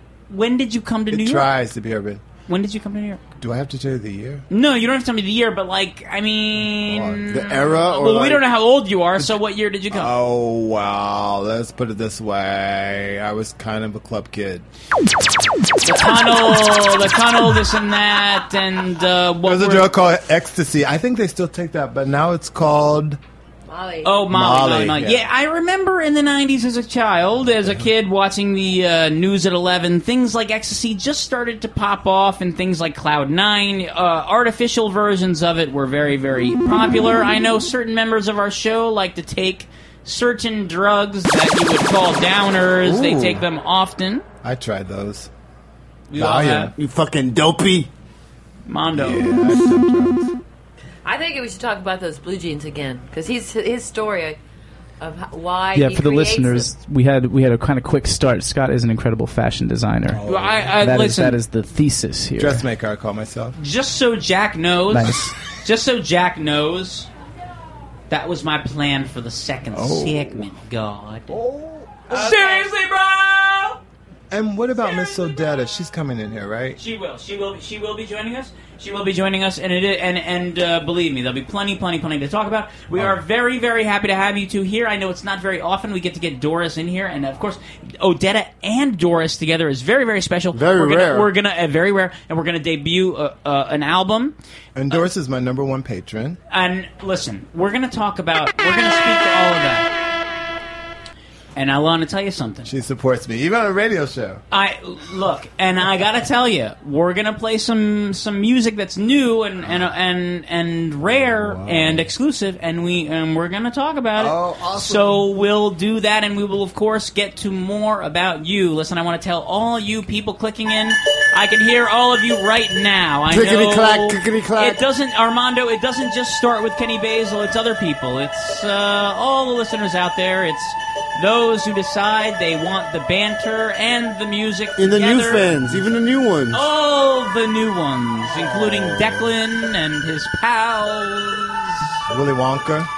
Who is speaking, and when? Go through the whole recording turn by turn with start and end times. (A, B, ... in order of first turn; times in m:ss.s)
0:00.3-0:01.5 A
0:01.1-0:02.2 B
0:02.5-0:03.2 A
0:03.4-0:04.4 B
0:04.5-0:10.1 A
0:06.8-0:07.4 B
0:07.3-0:08.4 C
0:09.9-0:14.6 B
0:15.8-0:19.9 A
0:19.4-0:23.2 B
0:23.7-0:24.2 D
0:24.0-0:44.2 A
0:24.3-0:25.3 B
0:42.8-0:43.4 B
0:44.4-0:45.3 B
0:46.1-0:46.7 A
0:46.1-0:46.7 B
0:46.8-0:47.9 C
0:48.7-0:49.3 A
0:48.9-0:50.3 B
0:51.0-0:54.4 D
0:55.0-0:56.7 D
0:55.8-1:00.2 E
1:00.1-1:00.7 B
1:00.3-1:01.4 A
1:00.8-1:02.6 E
1:02.4-1:03.6 B
1:03.6-1:07.1 A
1:04.9-1:05.3 E
1:08.1-1:11.3 A
1:09.7-1:10.4 B
1:12.1-1:13.8 A
1:14.3-1:16.8 B
1:16.8-1:34.4 A
1:30.5-1:31.3 C
1:34.8-1:36.4 B
1:36.5-1:39.9 A
1:41.6-1:42.7 A
1:42.6-1:44.4 B
1:44.5-2:15.8 A
1:51.1-1:52.1 B
1:54.2-1:55.2 B
2:03.3-2:04.8 C
2:14.8-2:16.7 C
2:16.5-2:22.0 A
2:18.4-2:19.3 B
2:22.1-2:22.9 B